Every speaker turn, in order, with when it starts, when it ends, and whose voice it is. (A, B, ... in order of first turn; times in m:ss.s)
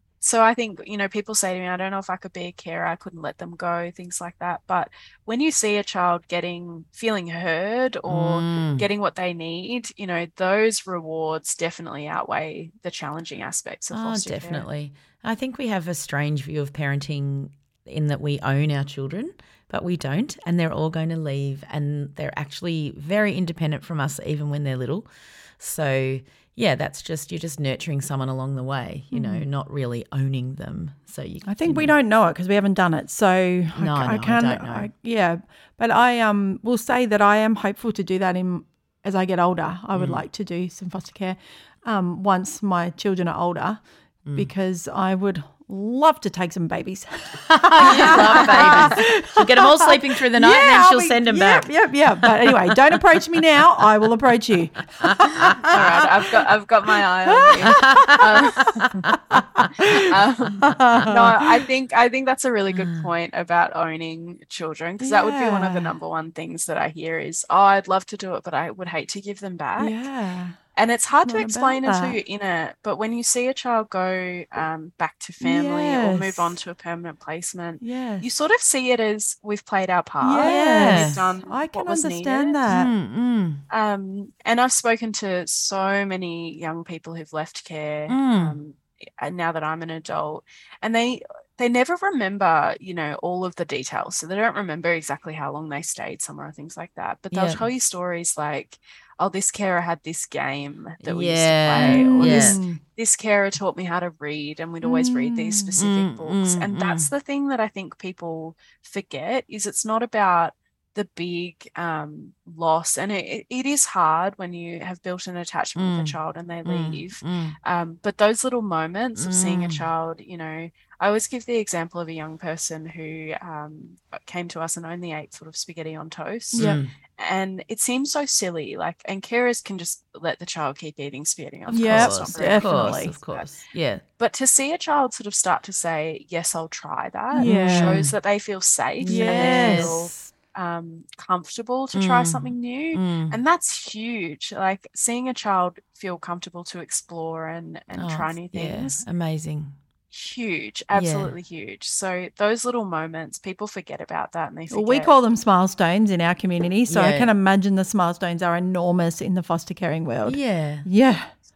0:00.2-0:14.6 A
0:08.1-0:08.8 B
0:13.9-0:31.9 B
0:29.1-0:29.5 C
0:31.4-0:56.1 C
0:33.8-0:34.9 B
0:39.9-0:40.2 B
0:44.2-0:44.5 B
0:47.5-0:52.9 B
0:48.3-0:48.9 A
0:55.0-0:55.6 B
0:55.7-0:58.8 A
0:57.2-1:00.1 C
0:57.7-1:00.0 B
1:00.0-1:10.0 A
1:00.6-1:01.1 B
1:01.0-1:01.6 C
1:02.7-1:03.1 B
1:05.0-1:06.0 C
1:09.8-1:10.6 C
1:10.7-1:22.6 A
1:11.2-1:12.2 C
1:15.4-1:16.6 C
1:17.8-1:18.3 C
1:20.2-1:22.9 C
1:20.4-1:21.3 B
1:22.7-1:23.6 B
1:23.7-2:13.6 A
1:28.1-1:28.6 B
1:37.3-1:37.6 B
1:41.0-1:42.6 B
1:41.7-1:42.8 C
1:44.8-1:45.8 C
1:45.8-1:47.1 B
1:55.8-1:57.6 B
1:59.2-1:59.8 B
2:06.5-2:06.8 C
2:06.5-2:06.9 B
2:11.7-2:14.0 B
2:11.7-2:13.1 C
2:14.2-2:29.0 A
2:17.3-2:18.1 C
2:17.4-2:18.1 B
2:19.0-2:20.3 B
2:19.0-2:20.0 C
2:21.9-2:23.4 B
2:27.9-2:29.7 B
2:30.1-2:35.1 A
2:30.9-2:31.3 B
2:34.7-2:41.3 C
2:36.9-2:37.3 B
2:40.2-2:40.8 B